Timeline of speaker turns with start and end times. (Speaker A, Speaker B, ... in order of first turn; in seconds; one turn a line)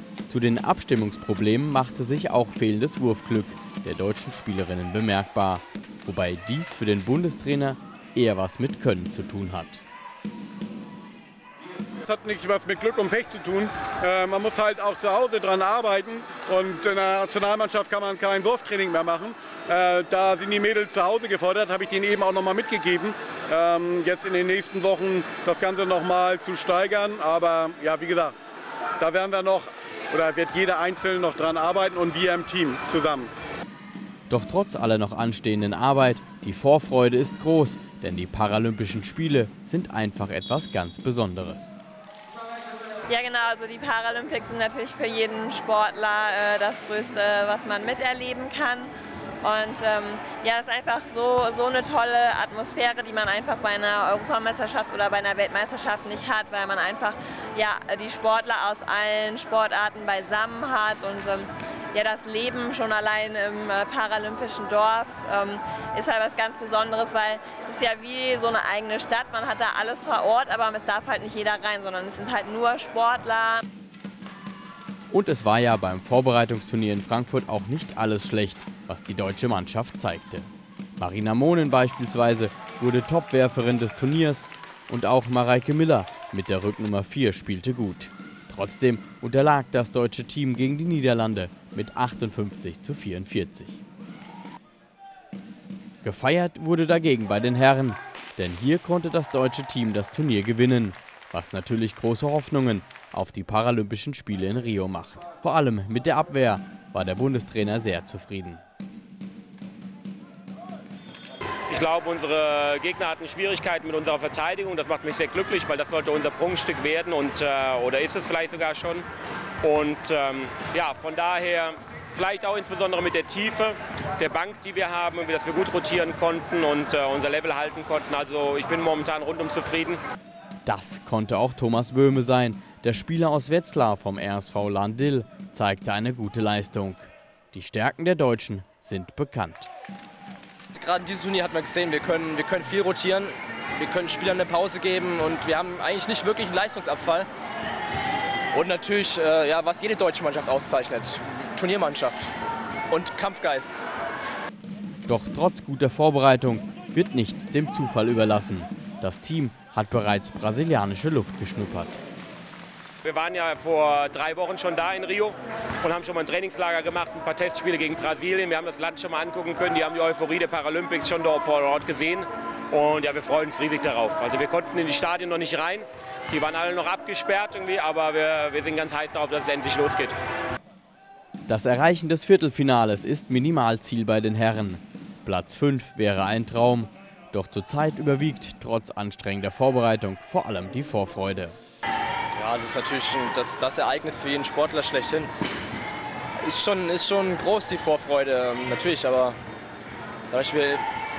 Speaker A: 0.3-9.8
Speaker B: 12.0-28.3
Speaker B: 29.0-33.3
Speaker A: 34.3-41.8
Speaker C: 43.1-48.9
Speaker C: 49.4-73.6
Speaker A: 75.1-93.8
Speaker A: 96.0-108.6
Speaker D: 111.7-119.0
Speaker D: 119.6-130.0
Speaker A: 130.7-139.7
Speaker E: 140.7-147.3
Speaker E: 148.5-152.3
Speaker E: 152.9-153.8
Speaker A: 155.1-162.0
Speaker D: 163.0-180.2
Speaker A: 181.5-191.6
Speaker E: 192.4-195.3
Speaker E: 196.4-199.4
Speaker E: 200.3-200.8